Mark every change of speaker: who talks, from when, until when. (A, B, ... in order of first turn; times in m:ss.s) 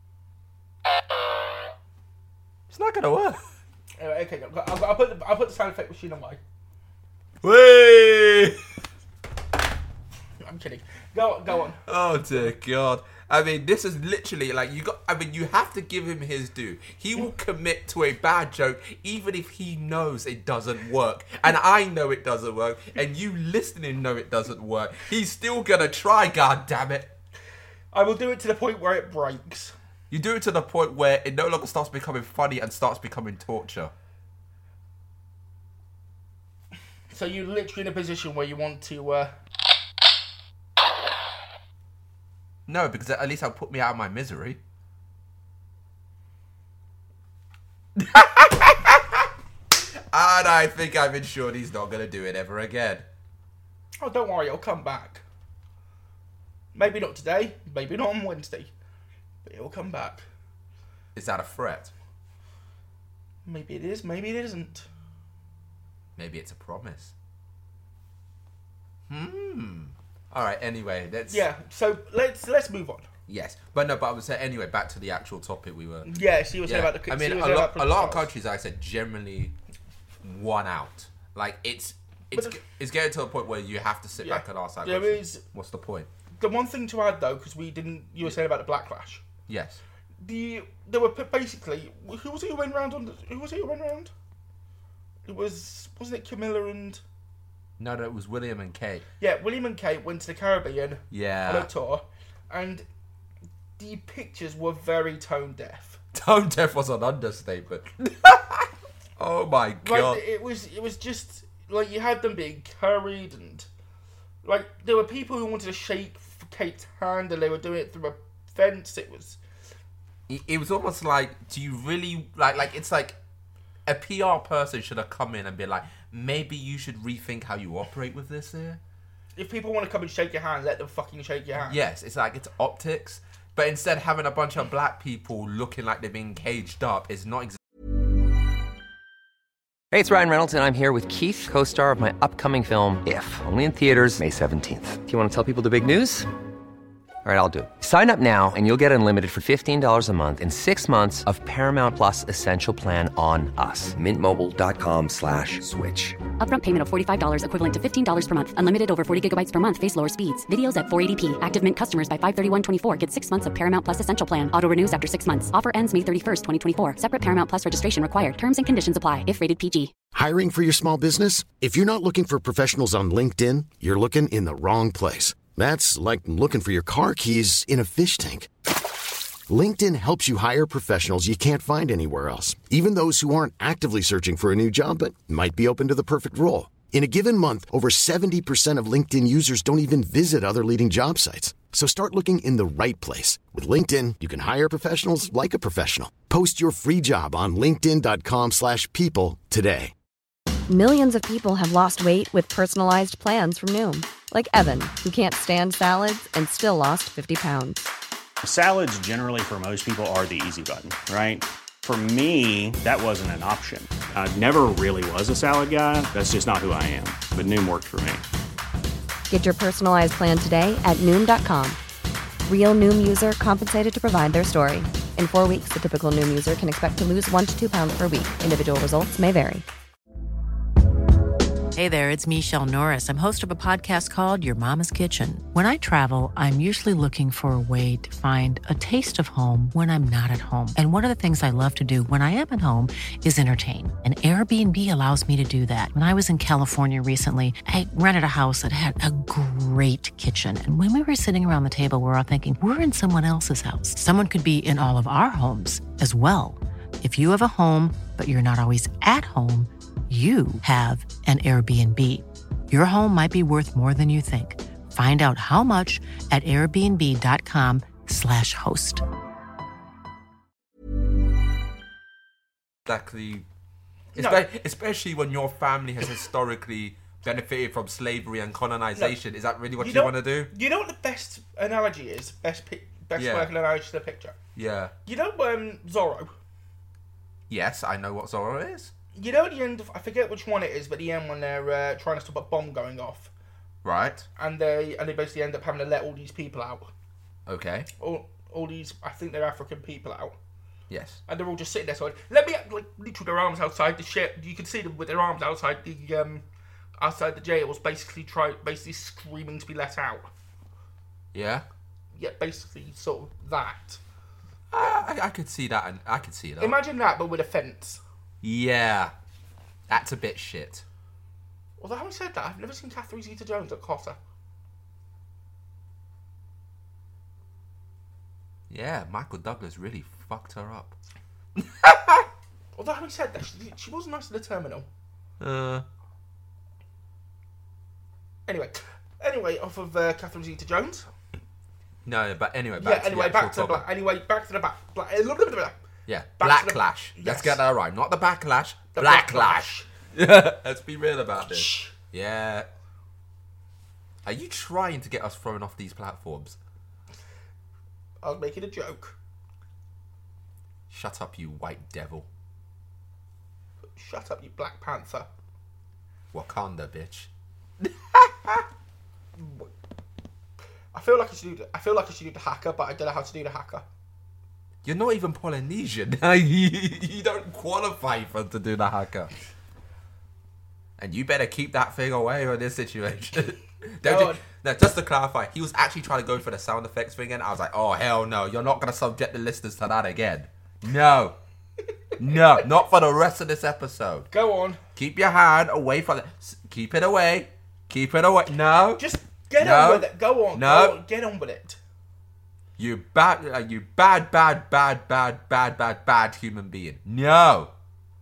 0:02.7-0:03.4 A
0:04.0-0:06.4 B
0:07.4-0:08.6 A
0:10.4-0:11.8 B
0:11.8-0:27.1 A
0:27.9-0:29.7 B
0:30.1-0:33.9 A
0:37.1-0:39.3 B
0:42.7-0:44.6 A
0:48.0-0:49.3 A
0:49.9-0:53.1 A
0:54.0-0:55.2 B
0:56.7-0:58.7 B
0:59.4-1:00.2 B
1:01.1-1:01.9 A
1:03.4-1:04.9 B
1:06.2-1:07.1 A
1:09.1-1:11.4 A
1:11.3-1:13.1 B
1:13.3-1:16.1 A
1:16.0-1:18.3 B
1:16.6-1:19.6 A
1:20.2-1:26.1 A
1:22.3-1:22.6 B
1:24.2-1:25.4 B
1:26.4-1:29.2 B
1:29.5-1:29.8 A
1:30.2-1:34.1 B
1:35.3-1:37.0 B
1:37.8-1:39.0 A
1:39.2-1:42.8 B
1:41.1-1:41.7 A
1:43.8-1:46.0 B
1:46.1-1:50.2 A
1:49.8-1:53.7 B
1:54.4-1:59.4 B
2:00.3-2:03.2 A
2:03.8-2:08.8 A
2:09.4-2:11.8 B
2:11.7-2:17.6 A
2:19.9-2:26.3 C
2:27.2-2:36.2 C
2:36.4-2:49.9 D
2:50.1-2:58.5 E
2:59.5-3:19.9 E
3:20.7-3:27.9 F
3:28.4-3:38.2 G
3:39.3-3:41.8 F
3:42.4-3:49.6 F
3:51.7-4:29.0 H
4:32.8-4:33.4 A
4:34.1-4:34.4 B
4:34.2-4:40.5 A
4:39.8-4:44.3 B
4:43.2-4:43.5 A
4:44.5-4:44.9 A
4:45.0-4:46.3 B
4:47.5-4:48.9 A
4:49.1-4:53.3 B
4:53.8-4:54.3 A
4:54.4-4:56.9 B
4:57.5-4:57.9 A
4:58.0-5:00.4 B
5:00.9-5:01.2 A
5:01.3-5:06.4 B
5:07.0-5:10.3 B
5:11.3-5:11.6 A
5:12.1-5:14.0 B
5:14.7-5:16.8 A
5:16.6-5:18.0 B
5:18.4-5:19.1 A
5:19.9-5:20.8 A
5:21.8-5:24.2 B
5:28.7-5:30.9 A
5:31.6-5:32.3 A
5:32.8-5:34.8 B
5:35.4-5:35.8 A
5:38.5-5:41.1 B
5:42.0-5:43.8 A
5:42.8-5:45.8 B
5:46.1-5:52.7 A
5:46.4-5:47.6 B
5:48.9-5:49.9 B
5:51.4-5:51.9 B
5:54.2-5:56.6 A
5:58.2-5:59.2 B
6:00.9-6:02.3 A
6:04.0-6:05.3 B
6:06.3-6:08.7 A
6:09.4-6:09.7 B
6:10.9-6:13.8 B
6:14.8-6:19.3 A
6:21.0-6:31.4 A
6:24.0-6:24.4 B
6:32.2-6:34.3 A
6:34.3-6:34.8 B
6:35.0-6:39.0 A
6:39.0-6:41.8 B
6:39.6-6:41.0 A
6:42.8-6:47.7 A